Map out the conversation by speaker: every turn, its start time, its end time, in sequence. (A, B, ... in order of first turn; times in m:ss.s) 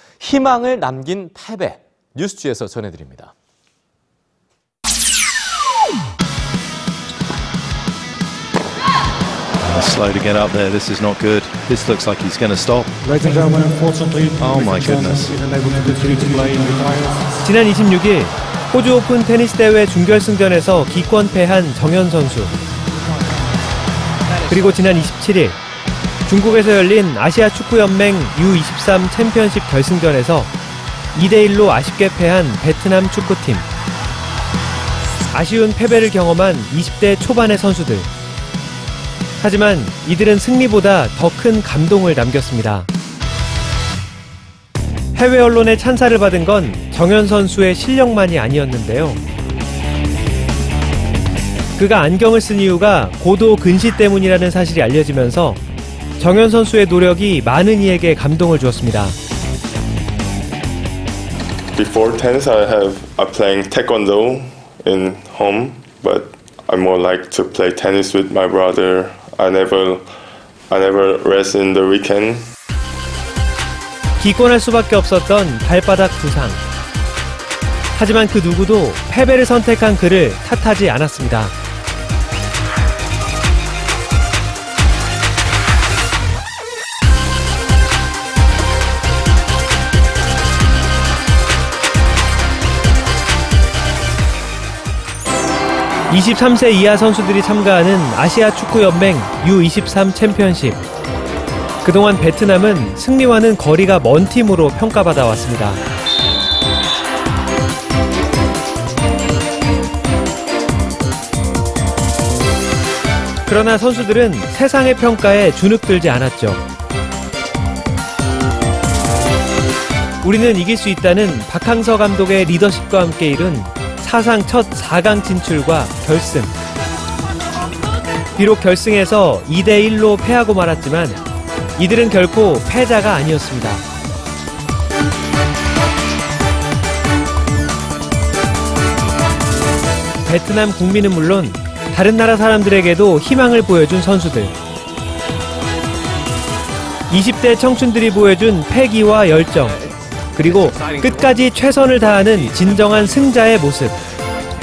0:00.2-0:03.3 A
0:09.6-0:13.1 B
0:13.1-0:14.4 C
0:14.4-0:15.4 B
0:15.3-0:17.2 C
0:17.4-0:22.5 D
0:24.4-0:25.6 D
0:26.2-0:30.5 D
0:31.1-0:33.7 D
0:35.3-0:38.1 D
0:39.4-0:42.9 D
0:45.1-0:49.2 D
0:51.8-0:55.6 D
0:56.2-0:59.2 D
1:01.7-1:10.1 E
1:10.7-1:12.5 E
1:14.2-1:16.6 D
1:18.0-1:21.5 D
1:36.1-1:40.8 D
1:41.8-1:45.8 D
1:53.4-1:56.6 D
2:00.2-2:06.5 D
2:08.4-2:11.2 D
2:11.8-2:13.8 D
2:20.2-2:24.5 D
2:27.1-2:34.0 D